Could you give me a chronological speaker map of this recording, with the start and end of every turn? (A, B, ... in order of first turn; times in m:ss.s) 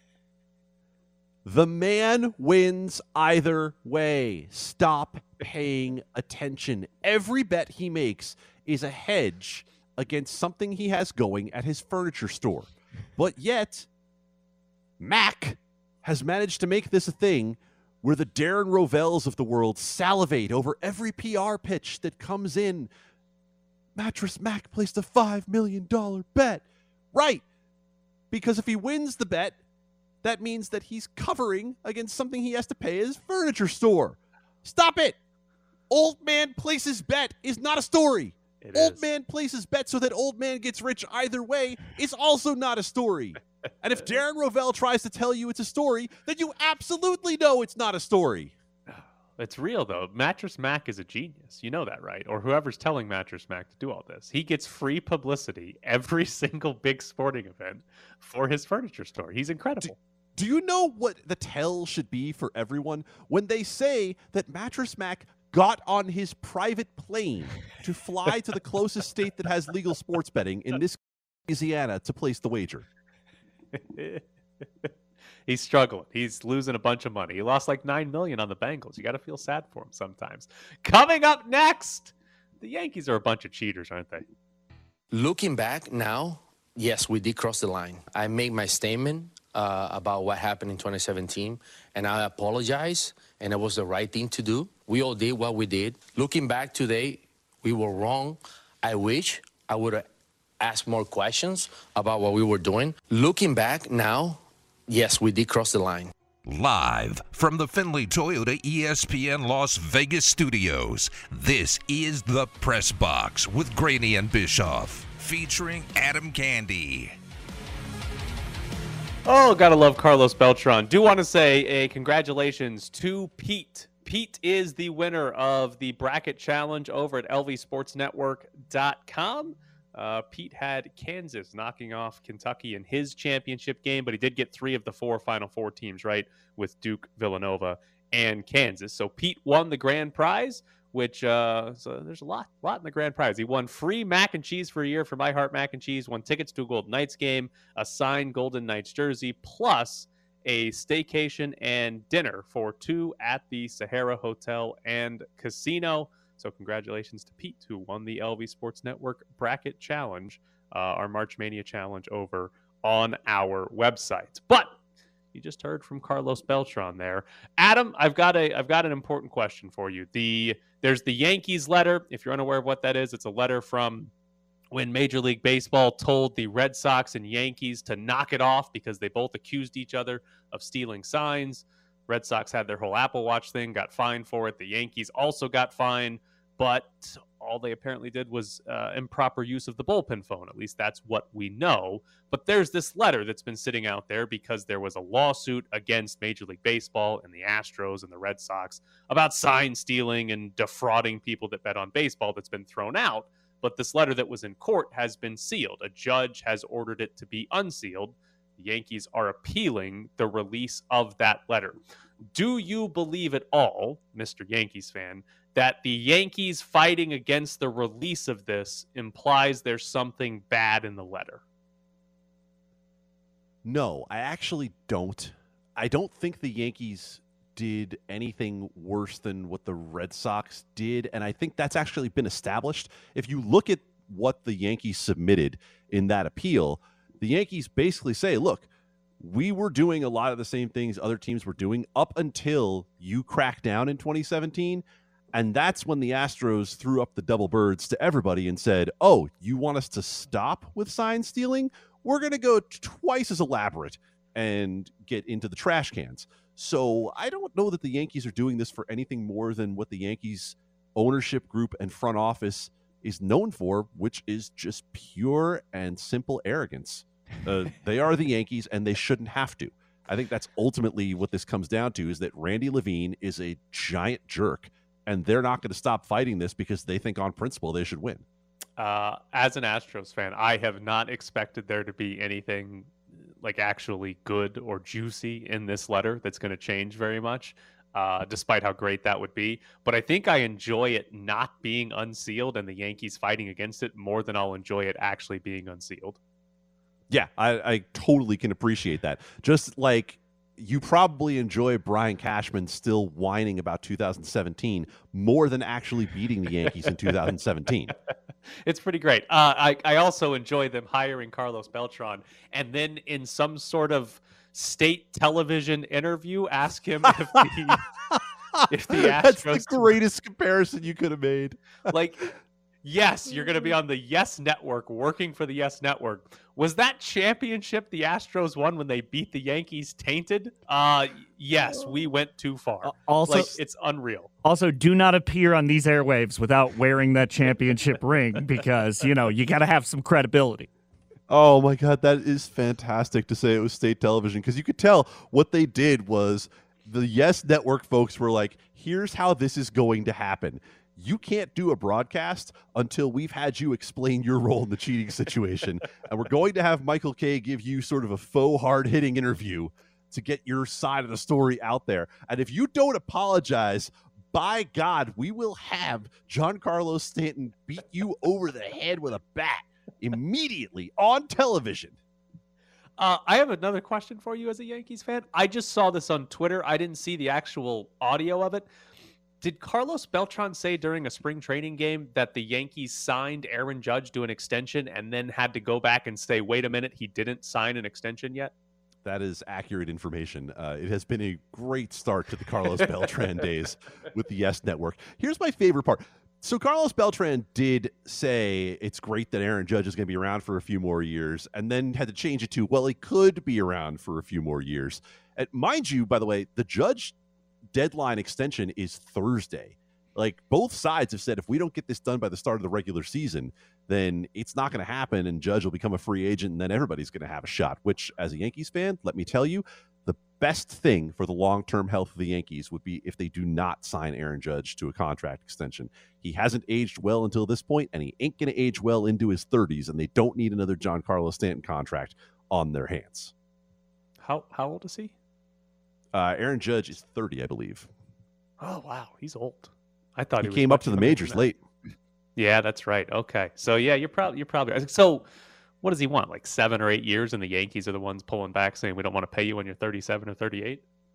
0:01.4-0:13.9 A
0:15.0-0:22.9 A
0:24.0-0:27.4 A
0:28.3-0:29.6 A
0:30.2-0:35.2 A
0:35.9-0:48.5 A
0:38.6-0:39.1 B
0:48.9-1:00.0 B
0:59.8-1:12.8 A
1:13.7-1:14.2 B
1:15.5-1:24.2 B
1:25.1-1:40.0 C
1:40.6-1:46.1 C
1:46.4-1:57.1 D
1:59.2-2:44.8 B
2:45.3-2:54.1 B
2:54.7-3:31.8 B
3:32.3-3:41.4 B
3:43.6-3:58.7 A
3:59.2-4:38.2 A
4:38.8-4:56.2 B
4:57.1-5:07.9 A
5:08.6-5:17.8 B
5:18.1-5:21.9 A
5:18.7-5:20.0 B
5:21.9-5:22.3 B
5:22.8-5:34.3 B
5:32.8-5:33.5 E
5:34.4-5:40.7 E
5:41.3-6:12.0 A
6:13.0-6:18.7 B
6:19.4-6:28.5 B
6:29.0-6:47.1 A
6:47.7-7:13.3 A
7:14.2-7:15.1 B
7:16.1-7:17.9 A
7:18.6-7:21.4 B
7:20.4-7:21.6 A
7:22.4-7:25.2 B
7:25.8-7:30.8 B